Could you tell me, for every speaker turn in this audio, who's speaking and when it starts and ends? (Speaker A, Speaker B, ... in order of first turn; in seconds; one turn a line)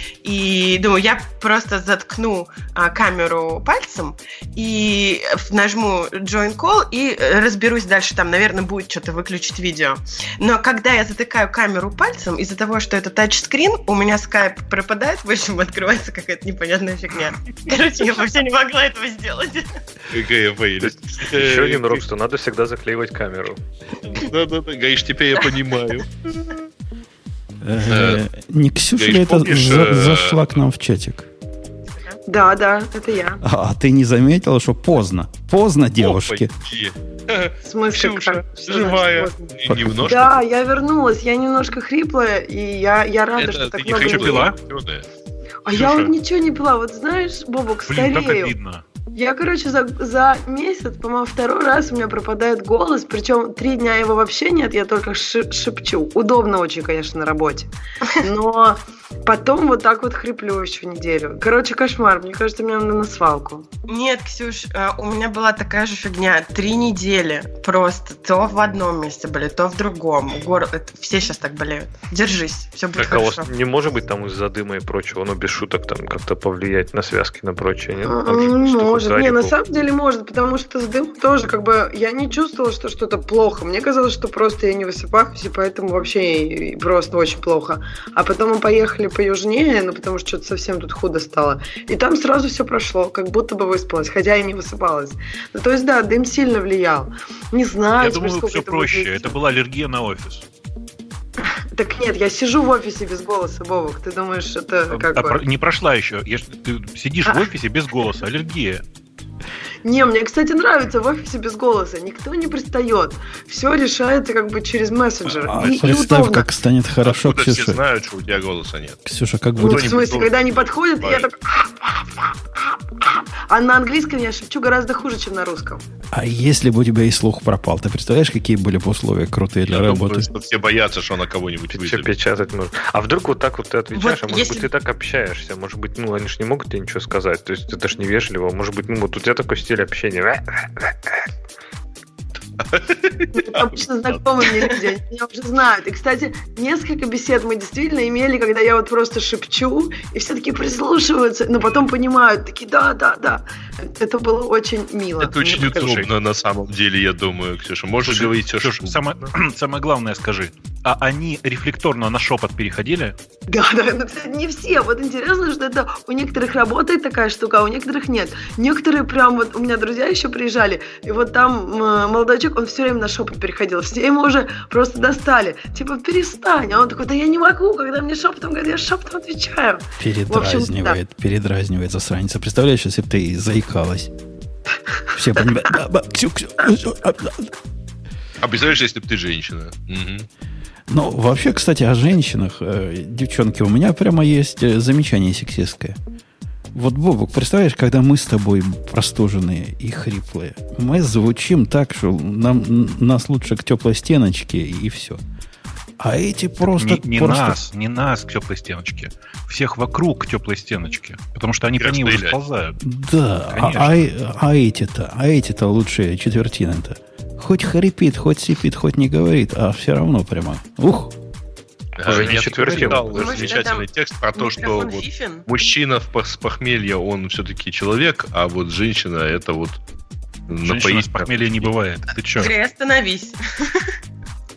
Speaker A: 0.2-19.7
Speaker B: 20.1-22.0
Speaker C: 20.8-23.6
Speaker B: 24.1-26.6
Speaker D: 27.6-31.3
Speaker B: 27.9-28.2
Speaker B: 28.9-30.4
Speaker E: 32.3-33.4
Speaker D: 33.4-36.5
Speaker B: 36.0-40.4
Speaker E: 37.6-44.5
Speaker D: 39.7-40.3
Speaker B: 43.3-45.0
Speaker F: 44.0-44.6
Speaker E: 45.6-48.5
Speaker F: 45.7-46.1
Speaker F: 47.9-48.8
Speaker E: 49.1-63.7
Speaker A: 63.9-73.5
Speaker C: 72.9-79.5
Speaker E: 78.0-99.4
Speaker F: 98.0-100.4
Speaker E: 101.4-105.4
Speaker F: 104.9-108.8
Speaker E: 109.8-116.5
Speaker D: 115.3-117.8
Speaker B: 117.0-119.0
Speaker D: 119.0-120.0
Speaker E: 119.6-125.8
Speaker B: 119.6-121.3
Speaker D: 126.1-130.3
Speaker B: 129.7-132.1
Speaker C: 131.7-141.3
Speaker A: 133.9-134.7
Speaker B: 142.6-143.6
Speaker E: 143.3-155.3
Speaker B: 155.2-159.0
Speaker F: 155.4-156.1
Speaker F: 158.0-163.1
Speaker E: 163.5-181.0
Speaker D: 180.0-184.1
Speaker D: 185.1-187.5
Speaker B: 188.4-190.3
Speaker D: 190.9-196.0
Speaker D: 196.7-205.2
Speaker D: 206.0-207.6
Speaker F: 206.6-212.8
Speaker B: 211.8-212.4
Speaker D: 212.8-221.1
Speaker F: 213.5-214.0
Speaker B: 222.0-229.8
Speaker C: 222.0-223.4
Speaker F: 222.1-223.1
Speaker A: 223.1-225.4
Speaker B: 230.5-231.7
Speaker F: 230.6-232.5
Speaker A: 232.3-233.9